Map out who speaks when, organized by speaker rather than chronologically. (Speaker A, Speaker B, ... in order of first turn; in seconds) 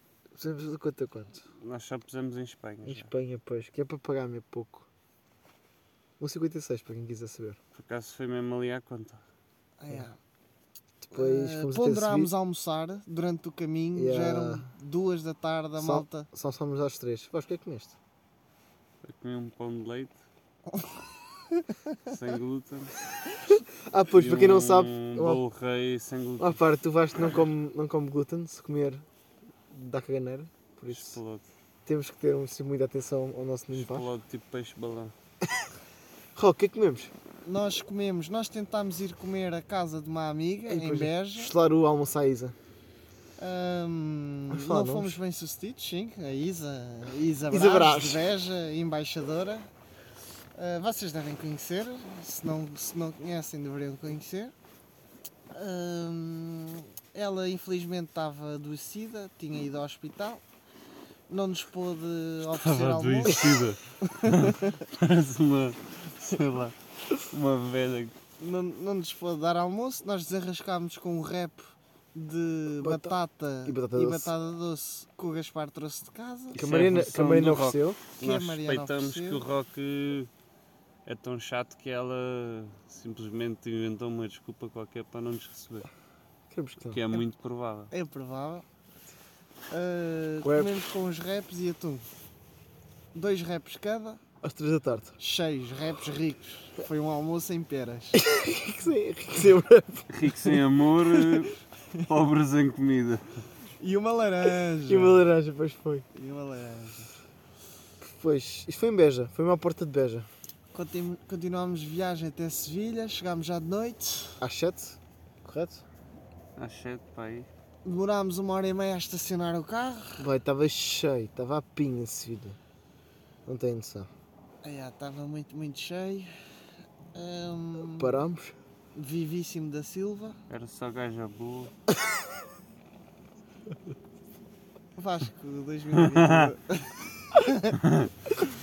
Speaker A: 0.3-1.4, 2.8-4.9, 6.2-7.6, 11.0-12.3, 13.9-14.7, 15.8-18.0, 23.9-25.4, 26.4-29.0, 29.7-31.2, 31.9-34.1, 36.3-37.1, 40.7-42.5, 44.5-45.2, 47.5-48.2, 72.8-74.3, 76.5-78.0, 86.5-87.0, 90.4-90.7, 94.4-95.2, 98.1-100.6, 104.9-106.1, 108.0-110.3, 114.4-115.8, 120.2-122.6, 123.5-124.1, 128.0-128.6
Speaker B: 1.6-3.1, 7.7-9.2, 19.0-20.2, 22.0-23.0, 24.1-26.6, 30.9-31.5, 33.7-35.1, 62.4-68.1, 76.5-80.3, 81.0-85.9, 86.9-87.9, 100.1-103.2, 116.6-117.5, 130.5-131.7, 136.0-136.5
Speaker C: 9.8-10.2, 11.1-16.3, 20.7-22.0, 37.4-41.5, 43.4-49.7, 50.5-54.5, 55.5-60.4, 61.3-64.8, 68.4-76.7, 78.2-79.4, 87.9-88.6, 89.7-92.0, 93.1-94.2, 95.2-98.2, 101.1-101.4, 103.8-105.2, 106.1-107.1, 110.7-114.4, 117.8-120.2, 124.6-126.3, 127.1-128.2, 128.9-130.4, 135.0-137.8